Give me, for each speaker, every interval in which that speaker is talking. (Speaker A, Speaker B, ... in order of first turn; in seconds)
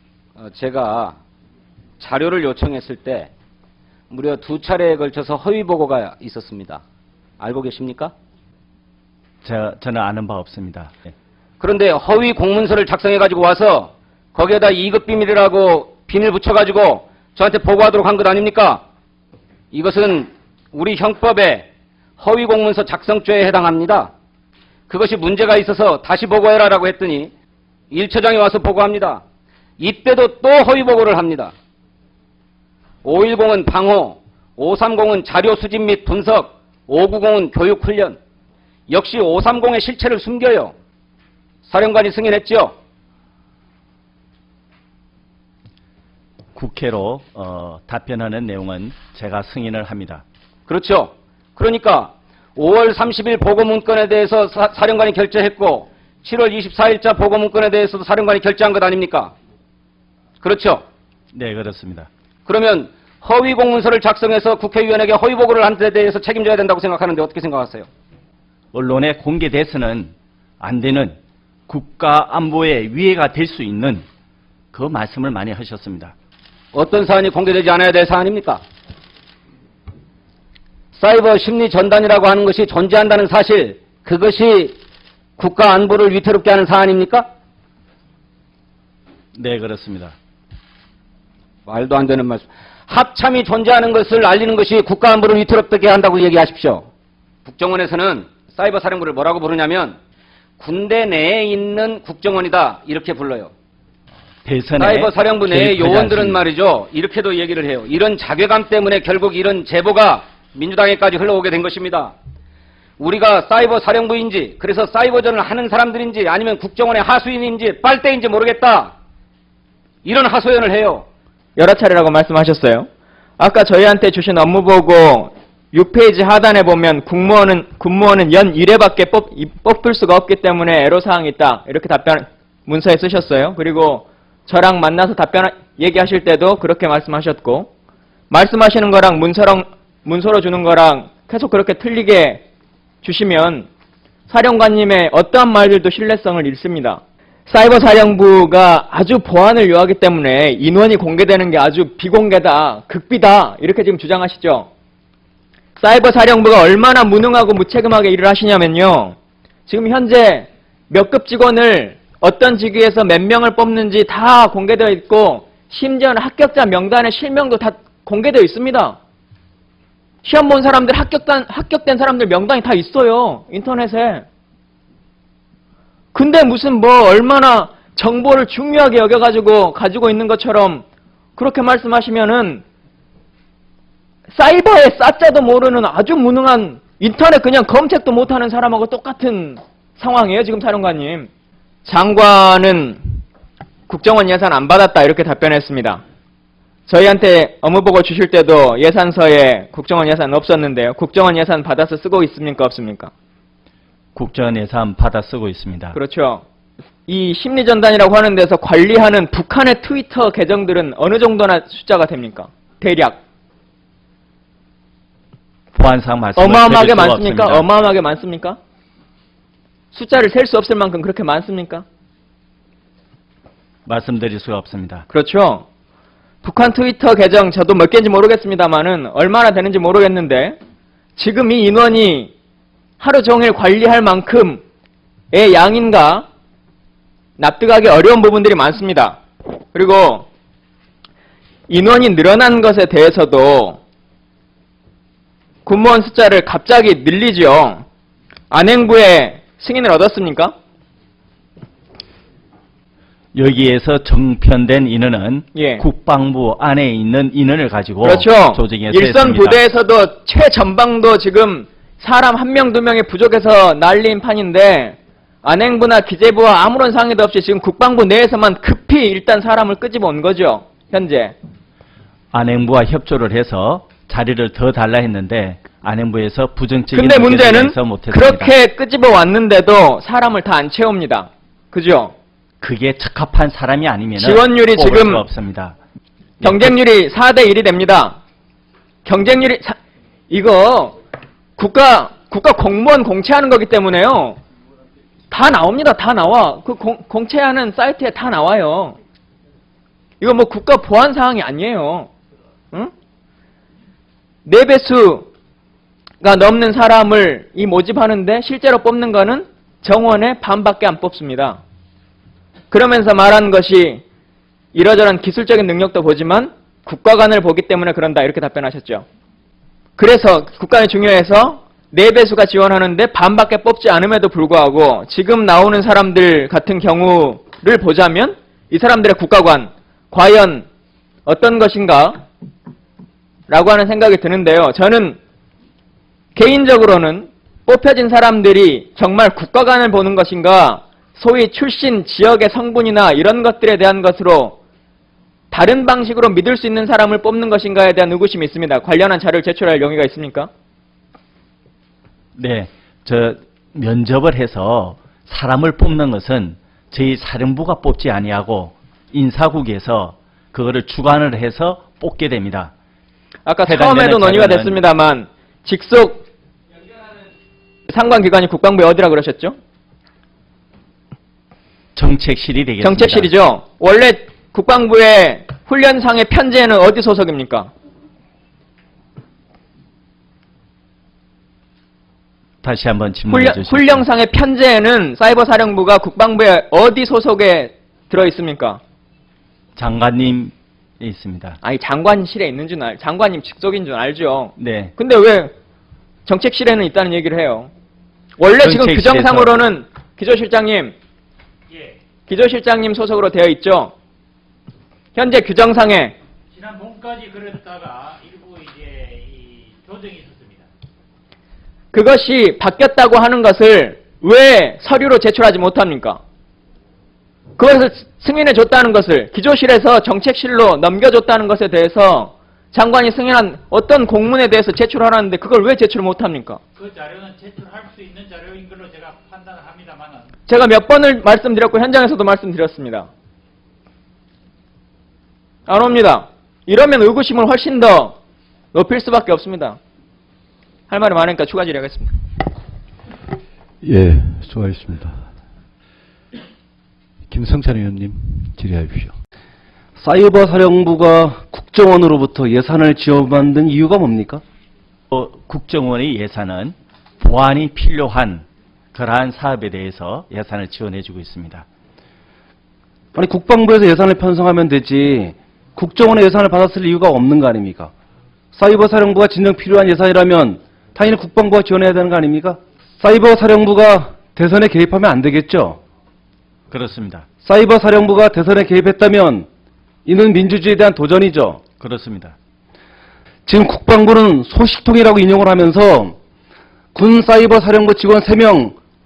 Speaker A: 0.4-1.2, 2.0-3.3, 4.1-6.8, 7.4-8.1, 11.6-18.8, 19.7-24.1, 24.9-27.3, 27.9-29.2, 29.8-31.5, 33.0-38.2, 38.9-40.7, 41.6-42.7, 50.7-59.3, 60.4-60.8, 62.5-67.9, 76.7-78.6, 81.0-84.7, 85.4-87.3, 91.7-96.9, 97.4-100.0, 100.6-103.5, 104.8-112.1, 113.0-118.9, 120.0-121.0
Speaker B: 9.4-10.9, 46.5-50.2, 61.3-62.1, 68.7-71.1, 71.7-74.0, 74.7-76.1, 89.3-90.1, 104.4-106.5, 204.1-206.0, 215.7-217.7, 223.8-225.0, 253.3-259.6, 272.3-278.5, 282.6-285.7, 286.4-286.7, 352.4-362.7, 363.6-364.8, 371.9-373.3, 382.6-384.0, 389.8-391.6, 394.6-394.9, 398.6-399.6, 455.1-461.6, 476.7-477.2, 481.8-482.3
Speaker C: 121.6-122.9, 123.4-137.7, 138.3-142.4, 143.0-143.7, 144.3-154.7, 155.8-159.1, 159.7-169.0, 170.2-174.2, 176.1-180.8, 181.4-182.6, 184.3-191.3, 191.8-193.0, 193.9-196.0, 196.9-203.1, 205.9-206.4, 207.1-213.2, 216.4-218.6, 219.9-221.8, 225.1-225.6, 226.4-230.6, 231.2-232.3, 233.0-234.6, 235.3-236.2, 237.4-239.2, 239.7-240.2, 241.7-243.8, 245.7-247.8, 248.5-250.5, 255.5-255.8, 258.0-271.3, 276.9-282.1, 284.2-285.2, 286.4-288.2, 289.0-289.8, 290.3-290.9, 291.6-294.4, 295.3-298.9, 300.2-302.1, 304.4-305.3, 306.2-311.6, 312.7-314.0, 314.7-319.0, 320.0-330.6, 331.3-332.1, 333.5-335.2, 336.4-344.6, 345.5-350.5, 363.4-366.2, 367.9-369.6, 372.8-377.7, 383.3-388.8, 391.6-395.5, 396.2-397.7, 398.4-400.9, 402.3-403.9, 405.1-406.1, 411.9-416.2, 417.6-426.6, 430.5-433.1, 435.7-438.1, 438.7-439.8, 440.9-442.1
Speaker D: 406.5-410.6, 426.8-430.3
Speaker E: 443.8-445.2, 447.3-449.1
Speaker F: 450.0-454.4, 463.1-467.9, 468.5-475.8, 477.4-479.5, 480.1-481.6, 483.5-486.1, 486.9-488.7